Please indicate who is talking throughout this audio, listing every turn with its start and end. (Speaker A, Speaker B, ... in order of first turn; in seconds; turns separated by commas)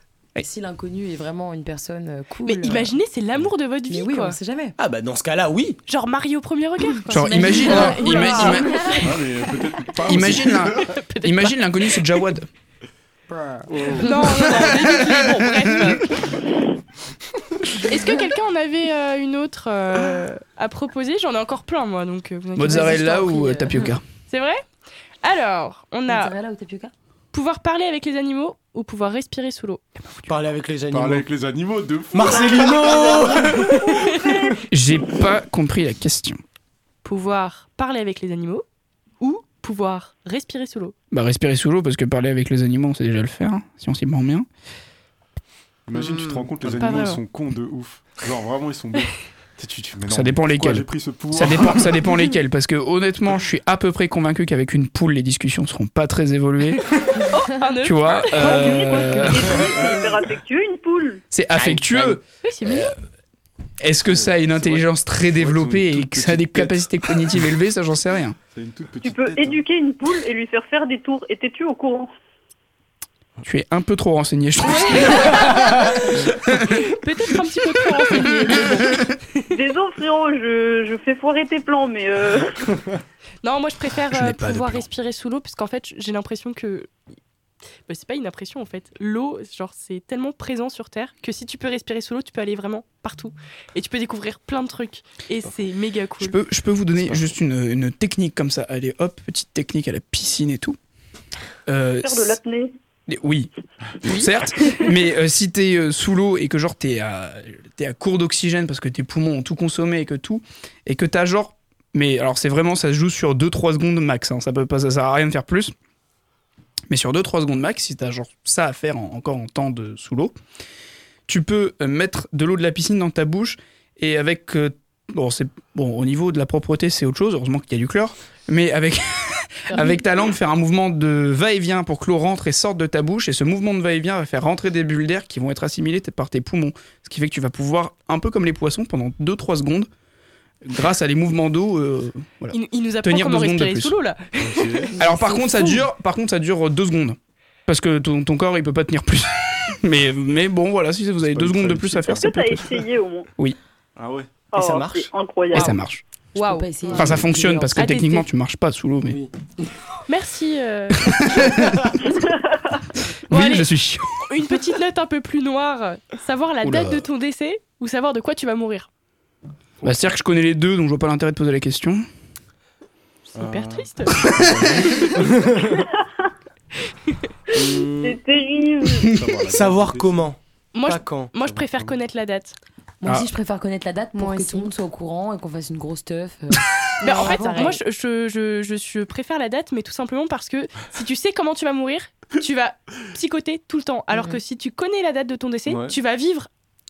Speaker A: 0.4-2.9, Speaker B: 2.4-4.4, Speaker A: 3.9-4.8, Speaker C: 4.8-5.8, Speaker B: 5.9-9.1, Speaker D: 7.1-8.9, Speaker A: 7.1-9.5, Speaker E: 9.0-10.9, Speaker D: 10.0-12.5, Speaker B: 10.7-12.0, Speaker A: 13.3-14.0, Speaker E: 13.7-14.1, Speaker B: 14.0-16.3, Speaker D: 14.5-16.0, Speaker B: 17.8-23.6, Speaker D: 22.6-24.0, Speaker A: 22.7-23.9, Speaker B: 24.3-24.6, Speaker B: 25.2-26.3, Speaker A: 26.1-26.9, Speaker B: 27.3-29.8, Speaker C: 30.3-31.3, Speaker E: 30.9-33.9, Speaker C: 32.1-34.5, Speaker F: 32.8-33.1, Speaker B: 33.9-34.4, Speaker D: 34.7-36.4, Speaker B: 37.0-38.6, Speaker B: 39.2-41.0, Speaker D: 41.1-44.5, Speaker E: 45.9-52.0, Speaker B: 46.8-47.2, Speaker D: 50.1-56.9, Speaker B: 57.3-59.3, Speaker D: 57.8-59.7, Speaker F: 58.3-61.2, Speaker D: 61.3-62.9, Speaker C: 61.5-62.2, Speaker B: 62.4-62.9, Speaker D: 63.8-68.4, Speaker E: 64.1-67.3, Speaker E: 68.5-69.6, Speaker F: 69.0-72.1, Speaker D: 73.4-76.9, Speaker B: 74.6-79.4, Speaker D: 78.0-79.0, Speaker F: 79.5-82.7, Speaker B: 83.4-86.9, Speaker D: 84.1-84.9, Speaker B: 87.9-96.4, Speaker D: 96.2-100.8, Speaker D: 101.7-102.4, Speaker F: 102.0-102.7, Speaker D: 103.1-103.5, Speaker D: 104.0-115.7, Speaker B: 104.0-104.3, Speaker D: 116.9-120.4, Speaker D: 121.3-139.9, Speaker B: 129.7-130.0, Speaker D: 140.6-143.9, Speaker B: 142.5-145.8, Speaker E: 144.4-144.9, Speaker D: 145.0-152.8, Speaker E: 151.3-152.3, Speaker F: 152.1-153.3, Speaker E: 154.0-154.4, Speaker F: 154.5-155.8, Speaker C: 154.6-155.1, Speaker D: 155.5-156.0, Speaker B: 156.3-157.0, Speaker A: 156.4-157.9, Speaker D: 156.9-159.2, Speaker B: 157.8-158.3, Speaker C: 159.1-159.3, Speaker B: 160.1-161.6, Speaker D: 161.0-162.0, Speaker D: 163.3-164.4, Speaker B: 163.3-163.7, Speaker B: 164.2-168.9, Speaker D: 166.6-167.1, Speaker D: 169.8-172.1, Speaker B: 173.3-174.3, Speaker E: 173.3-175.1, Speaker C: 175.1-175.8, Speaker B: 176.9-177.2, Speaker C: 177.5-178.2, Speaker F: 178.0-179.1, Speaker E: 179.1-180.2, Speaker C: 179.5-181.6, Speaker B: 180.7-182.6, Speaker A: 183.0-187.8, Speaker B: 187.0-196.5, Speaker A: 194.1-194.4, Speaker E: 195.7-196.0